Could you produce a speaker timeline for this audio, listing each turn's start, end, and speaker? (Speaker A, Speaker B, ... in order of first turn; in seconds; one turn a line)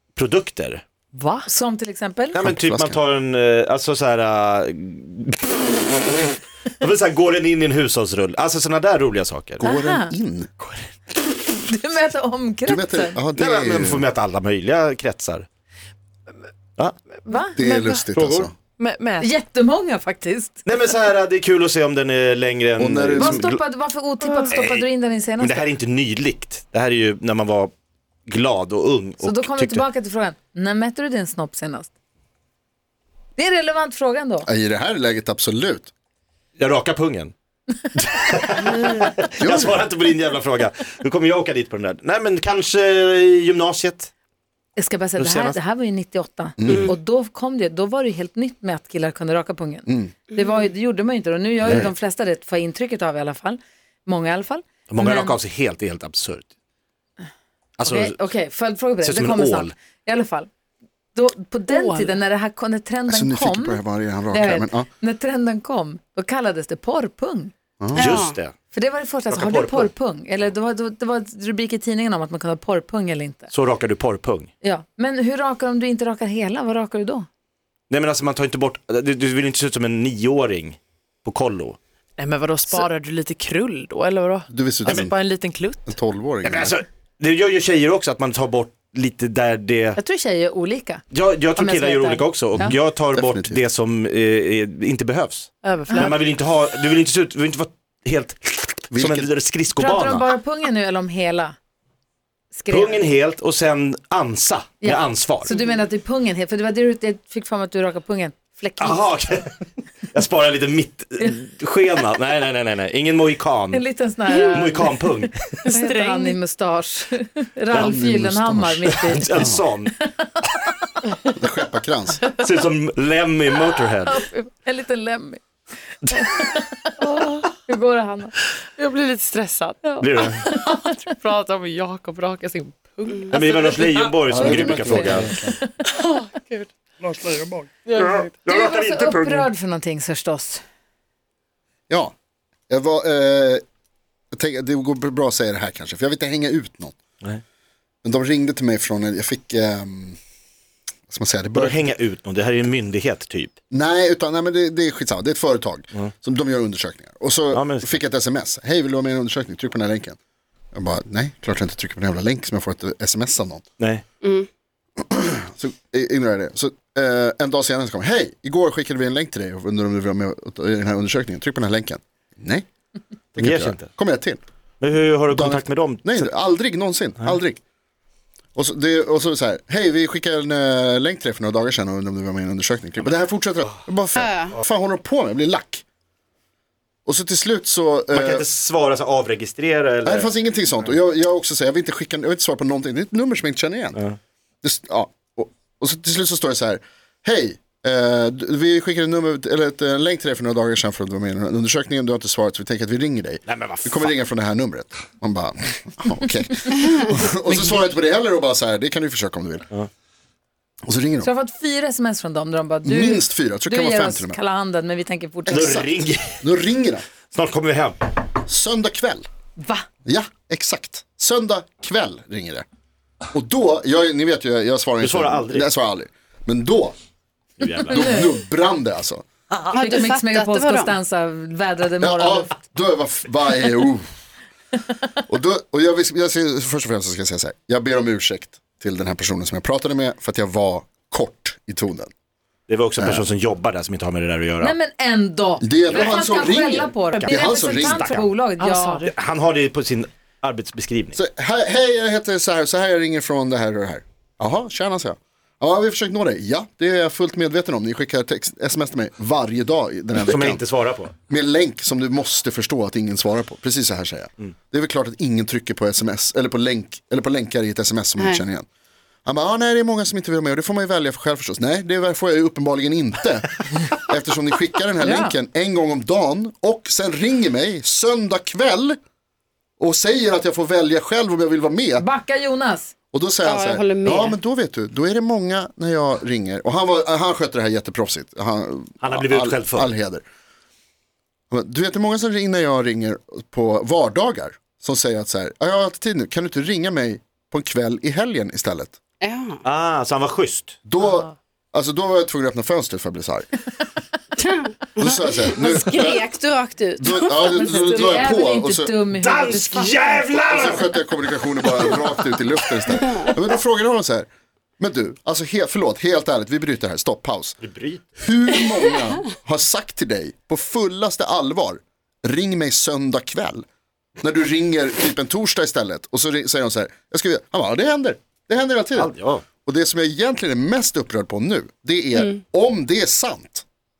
Speaker A: 0.1-0.8
Speaker B: 1.1-1.5
Speaker C: 1.4-2.4
Speaker A: 2.3-9.6
Speaker D: 2.4-3.0
Speaker D: 9.6-10.5
Speaker C: 9.6-10.1
Speaker C: 11.3-13.2
Speaker D: 12.7-14.1
Speaker A: 13.3-15.4
Speaker C: 17.3-17.9
Speaker D: 17.5-18.5
Speaker A: 18.1-18.5
Speaker B: 18.8-19.3
Speaker C: 19.2-20.6
Speaker A: 20.6-23.6
Speaker D: 22.8-23.6
Speaker C: 23.2-25.6
Speaker A: 24.5-24.8
Speaker A: 25.4-27.7
Speaker A: 28.3-29.8
Speaker C: 29.2-31.9
Speaker C: 33.4-34.5
Speaker D: 34.4-35.9
Speaker A: 36.6-37.3
Speaker A: 38.0-44.1
Speaker D: 39.4-39.8
Speaker C: 44.8-55.4
Speaker A: 45.2-45.6
Speaker D: 46.6-46.9
Speaker D: 49.9-50.1
Speaker A: 54.9-56.5
Speaker A: 57.8-58.3
Speaker C: 57.8-60.5
Speaker A: 59.0-59.7
Speaker C: 61.1-67.5
Speaker B: 61.8-62.1
Speaker D: 63.1-64.9
Speaker D: 67.8-68.2
Speaker E: 67.9-68.3
Speaker A: 68.0-68.5
Speaker C: 68.7-73.5
Speaker A: 69.3-69.9
Speaker A: 73.5-74.5
Speaker C: 74.6-77.3
Speaker A: 77.9-81.8
Speaker B: 82.2-86.0
Speaker D: 84.5-85.2
Speaker D: 85.8-86.8
Speaker A: 86.4-90.0
Speaker C: 90.0-91.0
Speaker A: 91.1-100.3
Speaker C: 91.5-92.7
Speaker D: 92.6-93.6
Speaker B: 95.6-96.2
Speaker D: 98.9-99.3
Speaker C: 99.7-101.5
Speaker C: 102.5-103.0
Speaker A: 102.7-105.5
Speaker C: 104.8-109.1
Speaker A: 108.8-109.5
Speaker A: 110.1-115.3
Speaker C: 113.7-115.1
Speaker B: 115.6-116.4
Speaker C: 115.7-120.3
Speaker D: 117.7-119.7
Speaker A: 118.8-119.9
Speaker D: 121.2-122.2
Speaker A: 122.4-124.2
Speaker C: 124.0-125.4
Speaker C: 126.0-126.9
Speaker B: 127.0-127.5
Speaker C: 127.5-128.3
Speaker B: 128.8-134.0
Speaker C: 129.9-130.9
Speaker A: 130.0-130.4
Speaker A: 133.3-135.3
Speaker D: 134.3-135.6
Speaker C: 134.4-135.3
Speaker B: 135.8-136.7
Speaker B: 137.8-138.3
Speaker A: 137.9-139.5
Speaker C: 138.4-140.6
Speaker D: 142.7-143.6
Speaker D: 144.3-146.9
Speaker D: 148.0-150.2
Speaker D: 151.1-151.9
Speaker A: 151.5-153.5
Speaker D: 153.7-160.2
Speaker A: 157.5-158.0
Speaker D: 160.7-163.6
Speaker D: 165.0-172.7
Speaker A: 173.3-173.9
Speaker D: 173.3-174.4
Speaker A: 174.8-176.3
Speaker D: 175.3-177.6
Speaker D: 178.6-185.8
Speaker E: 184.2-184.6
Speaker D: 187.1-188.4
Speaker A: 188.1-190.3
Speaker D: 190.0-194.0
Speaker D: 194.6-209.7
Speaker A: 203.4-204.1
Speaker D: 210.8-211.3
Speaker C: 211.2-215.8
Speaker D: 212.8-214.4
Speaker D: 215.4-217.1
Speaker A: 215.5-216.4
Speaker A: 217.3-218.0
Speaker D: 218.4-219.2
Speaker C: 219.6-219.8
Speaker D: 220.1-222.6
Speaker D: 223.3-226.9
Speaker A: 225.0-225.7
Speaker A: 227.6-228.3
Speaker D: 227.8-229.2
Speaker C: 227.9-228.2
Speaker E: 229.7-230.9
Speaker C: 229.7-232.6
Speaker D: 232.0-234.1
Speaker D: 235.3-242.1
Speaker A: 242.7-244.7
Speaker D: 243.0-243.2
Speaker C: 244.6-249.0
Speaker D: 245.6-248.3
Speaker B: 247.1-247.4
Speaker A: 247.7-248.2
Speaker B: 248.6-249.1
Speaker A: 249.0-251.2
Speaker D: 251.1-260.6
Speaker A: 260.2-261.1
Speaker D: 261.3-268.6
Speaker E: 268.2-268.4
Speaker D: 269.2-279.0
Speaker C: 275.0-275.3
Speaker D: 279.8-282.1
Speaker C: 282.0-282.9
Speaker D: 283.1-290.2
Speaker E: 283.4-284.4
Speaker A: 289.0-289.9
Speaker D: 291.5-298.9
Speaker E: 299.2-299.6
Speaker A: 299.6-300.8
Speaker D: 300.9-303.5
Speaker E: 304.4-307.2
Speaker D: 305.0-306.2
Speaker D: 307.0-308.9
Speaker C: 307.5-310.2
Speaker A: 309.2-312.0
Speaker D: 310.4-317.6
Speaker E: 313.0-313.3
Speaker A: 317.6-318.1
Speaker D: 318.2-323.6
Speaker D: 324.2-329.1
Speaker A: 328.9-329.4
Speaker D: 329.6-333.6